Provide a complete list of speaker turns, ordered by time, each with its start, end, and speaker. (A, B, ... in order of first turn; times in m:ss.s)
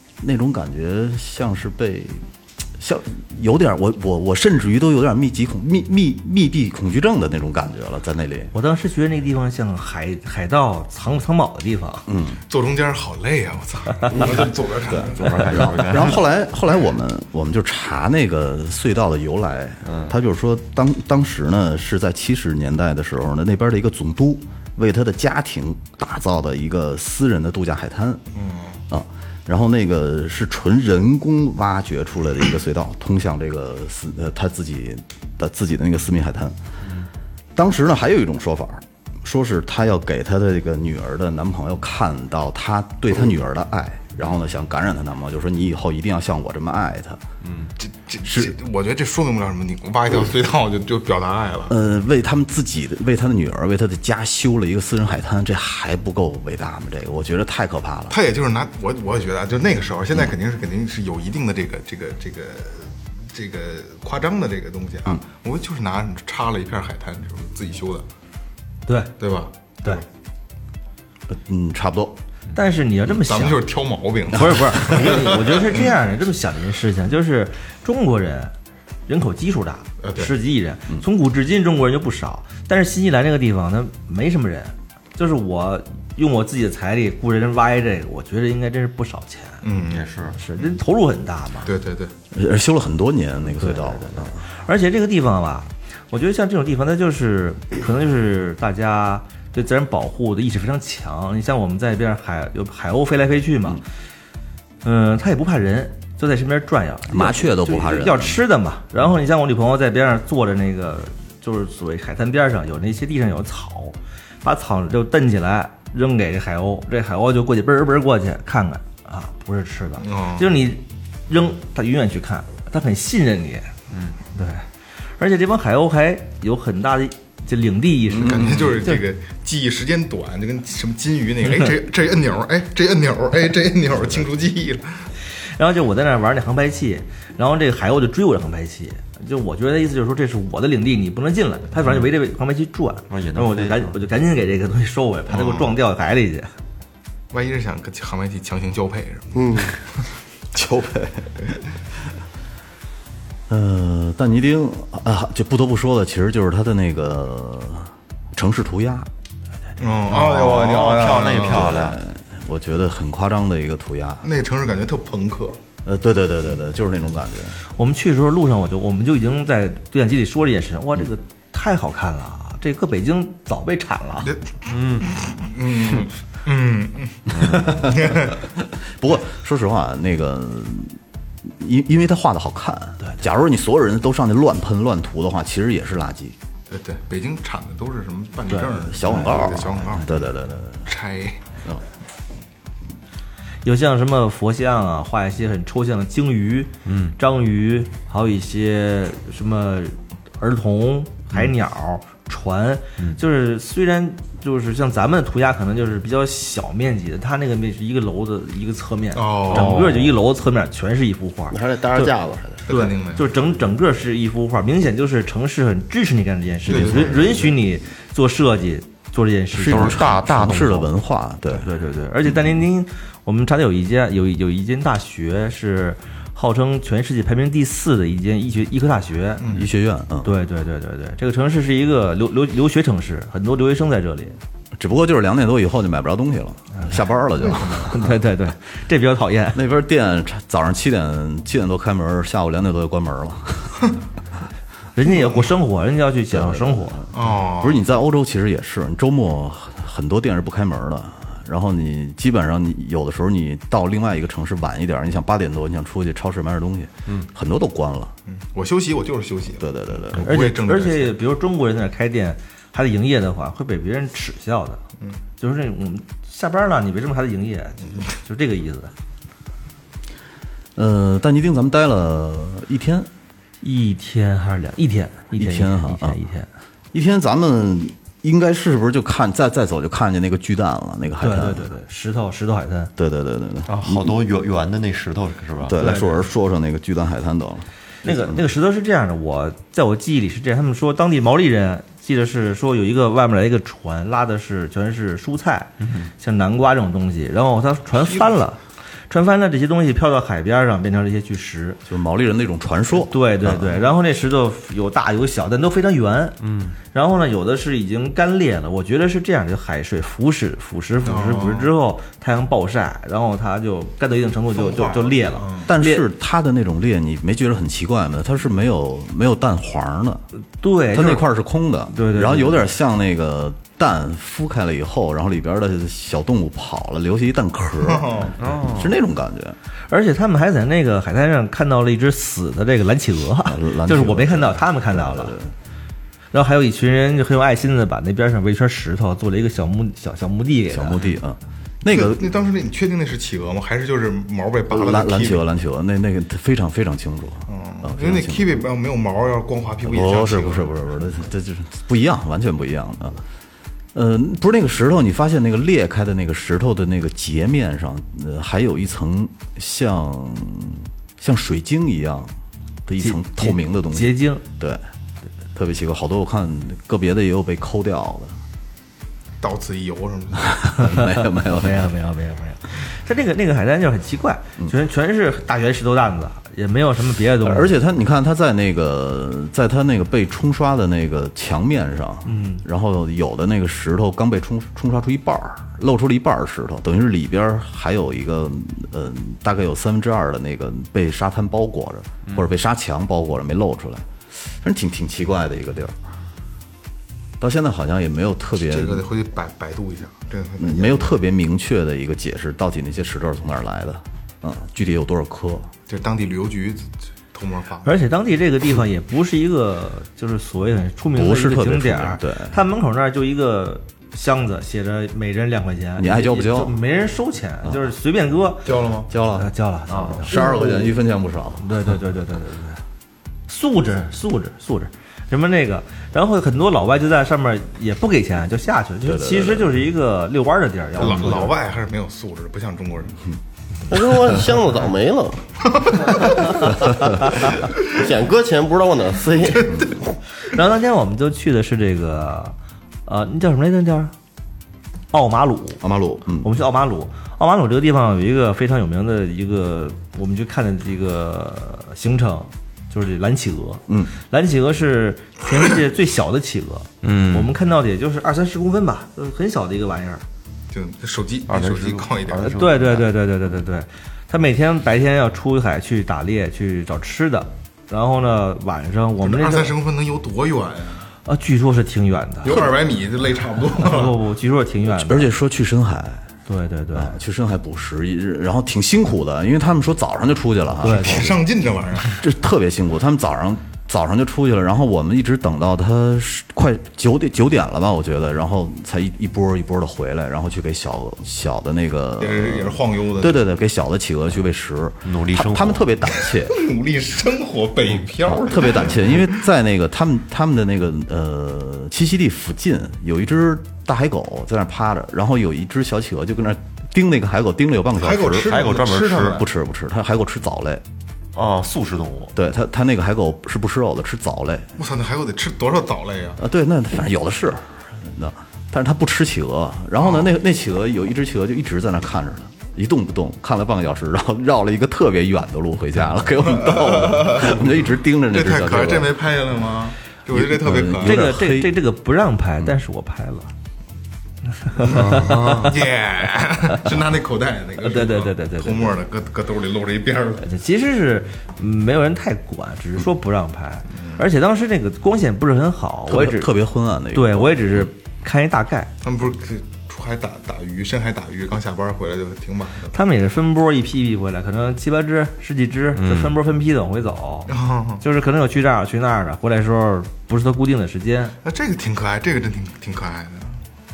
0:00.2-0:02.2 A
0:02.8-0:08.5 A
0:08.5-0:12.1 B
0:12.1-0:12.4 A
0:12.5-0:15.8 C
0:15.1-0:16.2 D
0:15.5-0:28.2 A
0:19.9-0:20.2 D
0:28.4-0:28.8 C
0:28.9-0:36.6 A
0:37.6-0:47.2 A
0:47.4-0:47.7 D
0:47.8-0:51.7 C
0:48.2-0:48.6 A
0:51.7-0:58.2 A
0:58.1-1:08.1 C
1:08.9-1:09.2 B
1:09.2-1:10.0 C
1:11.3-1:12.2 A
1:12.6-1:13.7 B
1:13.2-1:15.9 C
1:14.3-1:18.5 B
1:19.1-1:29.7 B
1:20.0-1:20.4 C
1:29.6-1:30.1 C
1:29.9-1:30.4 D
1:30.4-1:31.7 B
1:31.6-1:32.1 C
1:32.3-1:34.4 A
1:33.6-1:43.8 B
1:44.8-2:03.7 B
1:47.1-1:48.4 A
2:00.0-2:00.5 C
2:03.9-2:04.2 D
2:04.3-2:04.7 B
2:05.2-2:09.0 B
2:08.1-2:08.6 A
2:08.2-2:15.0 C
2:15.6-2:26.5 B
2:23.1-2:24.0 D
2:25.3-2:25.8 C
2:27.3-2:29.4 C
2:29.4-2:29.8 E
2:30.5-2:31.4 A
2:33.5-2:39.1 A
2:39.8-2:41.8 C
2:40.1-2:42.0 D
2:41.4-2:44.3 A
2:44.2-2:45.6 C
2:45.8-2:47.6 A
2:47.8-2:54.3 B
2:54.2-2:58.4 C
2:54.7-2:55.1 D
2:57.4-2:57.8 D
2:57.5-3:06.4 A
3:06.7-3:10.3 C
3:08.7-3:10.9 A
3:10.9-3:11.4 C
3:13.6-3:32.1 B
3:16.8-3:17.2 D
3:29.1-3:29.9 C
3:29.5-3:30.2 D
3:31.5-3:32.6 E
3:32.7-3:33.3 C
3:32.7-3:40.0 B
3:36.7-3:37.5 C
3:39.5-3:41.7 A
3:39.7-3:40.9 D
3:41.5-3:49.4 B
3:49.4-3:49.7 C
3:49.5-3:50.4 A
3:50.2-3:54.4 B
3:54.8-3:58.0 A
3:57.4-3:57.9 C
3:57.8-3:59.6 B
3:59.5-4:03.9 A
4:05.0-4:07.0 B
4:06.3-4:18.1 A
4:07.1-4:07.8 C
4:18.3-4:21.2 C
4:19.6-4:20.3 A
4:20.2-4:24.8 B
4:25.4-4:28.9 B
4:30.8-4:33.1 A
4:33.6-4:36.5 B
4:35.3-4:36.2 A
4:36.9-4:41.7 A
4:41.2-4:42.9 B
4:43.0-4:44.2 A
4:43.7-4:45.8 D
4:45.6-4:48.4 A
4:45.8-4:46.2 B
4:48.0-5:01.8 B
4:55.8-4:56.1 D
5:01.9-5:03.8 A
5:03.1-5:06.4 B
5:06.4-5:06.8 D
5:06.9-5:16.1 B
5:11.0-5:11.7 C
5:14.5-5:15.7 C
5:15.7-5:20.2 A
5:20.6-5:21.3 B
5:20.9-5:29.6 A
5:21.9-5:22.7 B
5:27.8-5:28.4 C
5:28.4-5:29.0 D
5:29.9-5:35.4 B
5:33.4-5:35.5 A
5:36.3-5:41.0 B
5:40.7-5:42.3 A
5:41.9-5:45.4 C
5:44.7-5:48.6 A
5:47.5-5:50.7 C
5:49.8-5:53.2 A
5:53.9-6:02.3 A
6:02.9-6:04.8 A
6:03.0-6:04.4 B
6:05.6-6:08.4 A
6:09.4-6:10.6 C
6:10.4-6:11.9 A
6:10.8-6:17.7 B
6:17.4-6:36.0 A
6:22.2-6:22.6 B
6:37.4-6:39.0 A
6:38.6-6:41.1 C
6:40.6-6:45.7 A
6:45.9-6:47.9 C
6:47.8-6:58.8 B
6:51.1-6:52.6 A
6:56.0-6:56.8 A
6:58.6-6:59.1 C
6:59.1-6:59.5 A
6:59.3-7:00.9 B
6:59.9-7:00.2 D
7:00.2-7:01.7 A
7:01.6-7:02.8 B
7:03.5-7:11.6 B
7:09.0-7:09.8 A
7:11.0-7:13.2 C
7:13.9-7:20.0 E
7:15.7-7:16.4 C
7:20.4-7:22.6 B
7:23.1-7:24.1 B
7:25.1-7:25.8 B
7:25.8-7:26.5 A
7:26.4-7:40.2 B
7:33.9-7:34.1 A
7:37.0-7:37.5 D
7:40.7-7:42.7 C
7:41.5-7:43.1 D
7:42.4-7:49.7 B
7:49.2-7:51.1 C
7:51.3-7:52.7 B
7:52.4-7:54.2 C
7:53.8-7:55.3 B
7:54.9-7:56.3 A
7:56.5-7:57.2 B
7:56.9-8:01.4 A
8:00.8-8:01.4 B
8:00.9-8:02.2 C
8:02.1-8:16.7 A
8:12.2-8:13.4 C
8:15.0-8:15.9 D
8:16.5-8:19.3 C
8:18.3-8:30.8 A
8:28.0-8:29.4 C
8:28.4-8:29.4 D
8:31.4-8:32.3 D
8:32.3-8:34.7 A
8:34.8-8:36.4 C
8:36.4-8:49.1 A
8:46.7-8:47.6 C
8:48.3-8:51.2 C
8:50.3-8:51.8 A
8:51.0-8:53.5 B
8:54.6-8:55.7 B
8:54.8-9:00.5 C
8:55.2-8:55.6 D
8:57.8-8:58.9 B
9:00.4-9:06.5 B
9:04.0-9:04.2 C
9:06.1-9:07.9 A
9:07.1-9:08.9 B
9:09.0-9:13.0 C
9:12.9-9:21.4 B
9:16.0-9:16.4 D
9:17.5-9:18.0 C
9:21.4-9:23.6 C